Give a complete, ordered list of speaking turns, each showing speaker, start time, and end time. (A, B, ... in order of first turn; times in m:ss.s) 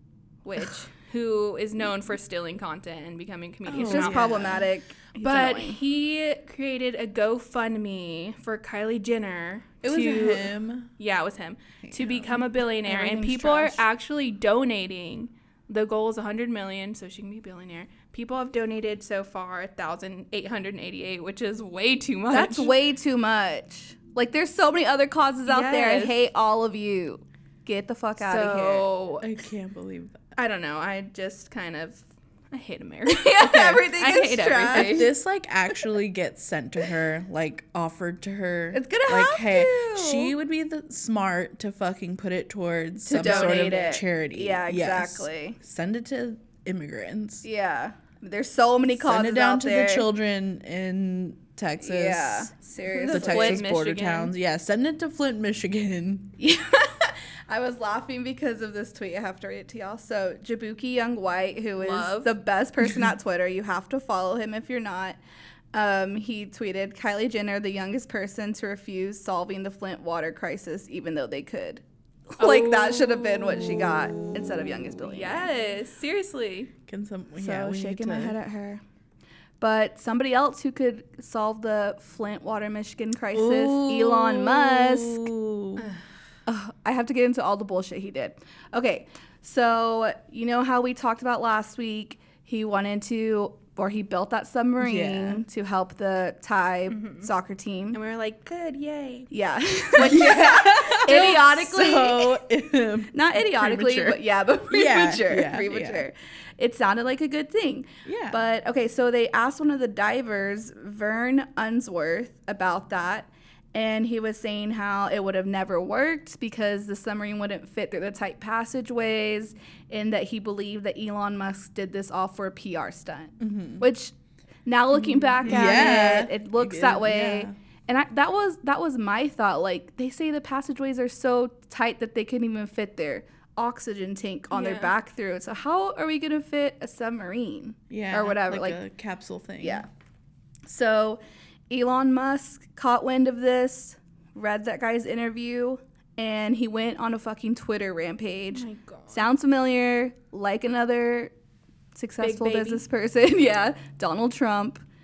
0:00.4-0:04.7 A
0:03.7-0:04.6 B
0:03.7-0:05.8 C
0:05.2-0:22.7 A
0:09.8-0:10.9 B
0:11.8-0:12.3 B
0:12.8-0:13.8 C
0:22.3-0:28.9 C
0:25.5-0:26.2 A
0:28.2-0:29.3 A
0:29.2-0:30.2 B
0:30.4-0:35.1 A
0:33.1-0:35.1 C
0:34.7-0:47.4 B
0:38.7-0:40.3 C
0:43.0-0:45.6 C
0:43.2-0:44.0 A
0:47.4-0:50.1 C
0:49.0-0:52.5 B
0:51.8-0:53.6 C
0:52.9-0:54.3 A
0:53.1-0:56.3 B
0:56.4-1:05.2 C
1:01.8-1:02.3 A
1:05.7-1:11.8 C
1:12.4-1:15.5 C
1:12.4-1:13.8 A
1:15.1-1:16.7 A
1:16.8-1:18.4 B
1:17.4-1:18.8 C
1:19.6-1:25.3 C
1:23.3-1:25.9 B
1:26.4-1:38.0 C
1:34.8-1:35.4 B
1:36.9-1:37.3 A
1:37.9-1:39.3 A
1:39.3-1:42.4 C
1:40.0-1:46.0 B
1:43.1-2:04.1 C
1:48.0-1:48.4 B
2:03.4-2:03.8 B
2:04.6-2:18.8 C
2:05.4-2:06.0 A
2:05.4-2:07.5 B
2:14.5-2:14.9 A
2:17.9-2:19.8 B
2:19.6-2:19.9 C
2:20.6-2:31.3 C
2:28.5-2:29.2 A
2:31.9-2:34.8 C
2:32.2-2:32.8 A